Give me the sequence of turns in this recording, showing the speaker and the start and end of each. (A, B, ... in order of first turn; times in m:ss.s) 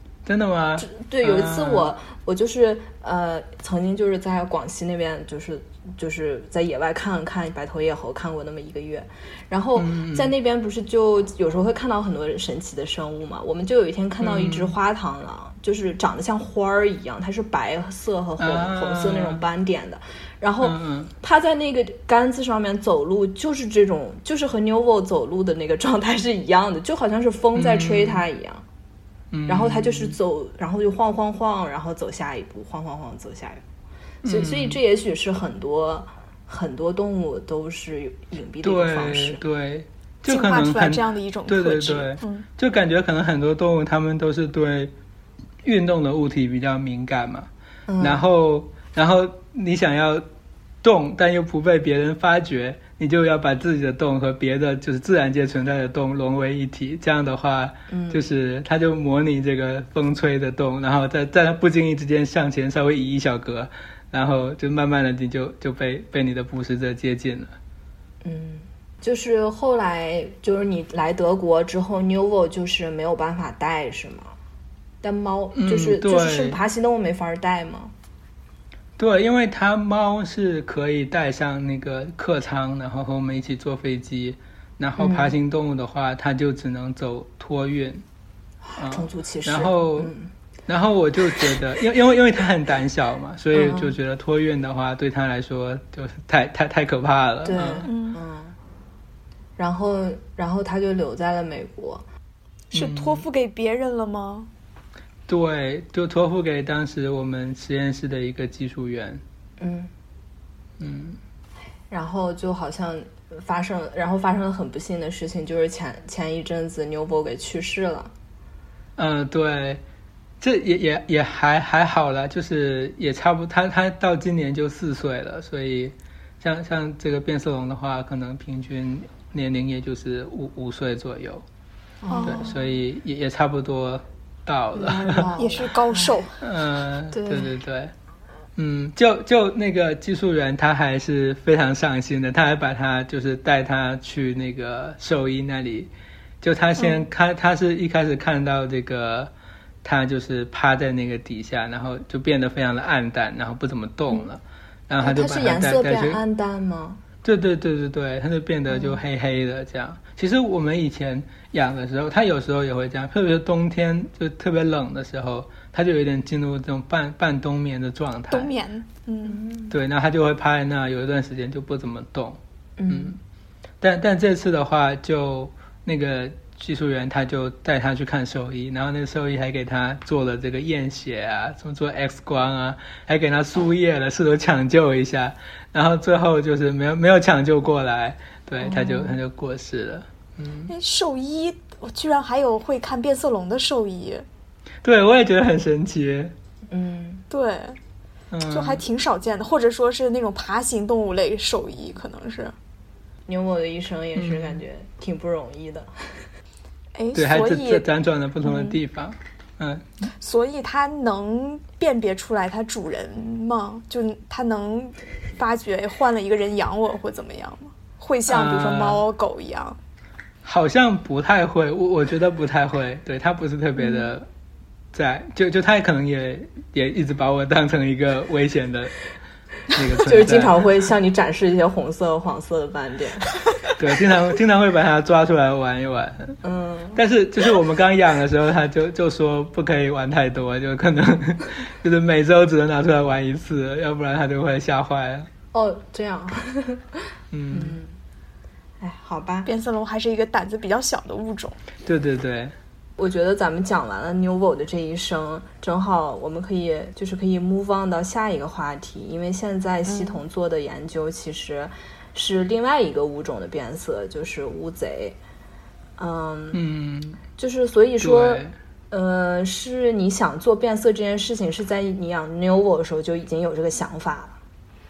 0:00.2-0:01.9 A
0:00.8-0:28.6 B
0:09.8-0:10.3 A
0:14.2-0:14.7 A
0:18.4-0:19.4 A
0:20.6-0:21.1 A
0:27.5-0:28.2 A
0:29.3-0:30.2 A
0:29.5-0:33.6 B
0:34.2-0:34.8 A
0:34.2-0:39.4 B
0:38.6-0:44.9 A
0:40.3-0:42.4 C
0:45.6-0:47.5 A
0:47.9-0:48.2 B
0:48.0-0:50.2 A
0:50.8-1:07.5 A
0:57.9-0:58.2 B
1:08.2-1:14.3 B
1:15.0-1:17.9 B
1:15.5-1:16.6 A
1:19.0-1:28.0 A
1:25.0-1:25.3 B
1:28.7-1:30.3 B
1:28.8-1:30.1 A
1:30.7-1:37.9 A
1:33.5-1:33.9 B
1:37.4-1:38.6 B
1:37.8-1:38.2 C
1:39.6-1:42.0 B
1:42.7-1:44.5 C
1:42.7-1:43.2 A
1:45.3-1:49.2 A
1:49.6-1:49.9 B
1:50.8-1:51.2 A
1:51.9-1:58.1 B
1:59.0-1:59.8 A
2:00.4-2:11.4 A
2:12.0-2:12.7 B
2:12.1-2:12.5 C
2:12.2-2:15.3 A
2:14.7-2:16.2 B
2:15.4-2:16.4 C
2:16.4-2:17.9 A
2:17.1-2:17.6 B
2:18.6-2:25.9 A
2:26.4-2:29.3 A
2:29.8-2:36.2 A
2:35.0-2:37.0 B
2:37.2-2:48.5 A
2:38.7-2:39.0 B
2:48.3-2:49.4 C
2:49.3-2:49.7 B
2:49.7-2:53.2 A
2:52.8-2:53.2 B
2:53.8-3:10.7 A
3:08.6-3:09.2 B
3:10.7-3:14.2 C
3:14.8-3:16.3 A
3:16.7-3:17.2 B
3:17.3-3:17.8 C
3:18.3-3:18.8 A
3:18.4-3:22.5 C
3:23.3-3:26.2 B
3:24.2-3:24.6 A
3:26.9-3:27.8 C
3:27.1-3:29.8 A
3:28.5-3:28.7 C
3:30.2-3:39.8 C
3:38.3-3:39.0 A
3:40.4-3:44.3 A
3:44.9-3:48.9 A
3:49.7-3:50.6 A
3:49.9-3:53.3 B
3:53.8-3:56.4 A
3:56.4-3:57.0 B
3:57.0-4:05.3 A
4:05.5-4:07.9 B
4:07.3-4:07.8 A
4:08.8-4:09.5 B
4:09.4-4:11.6 C
4:11.8-4:12.5 A
4:13.0-4:25.2 B
4:19.8-4:20.2 C
4:26.0-4:26.6 B
4:26.5-4:27.2 A
4:27.4-4:34.4 B
4:28.0-4:28.5 A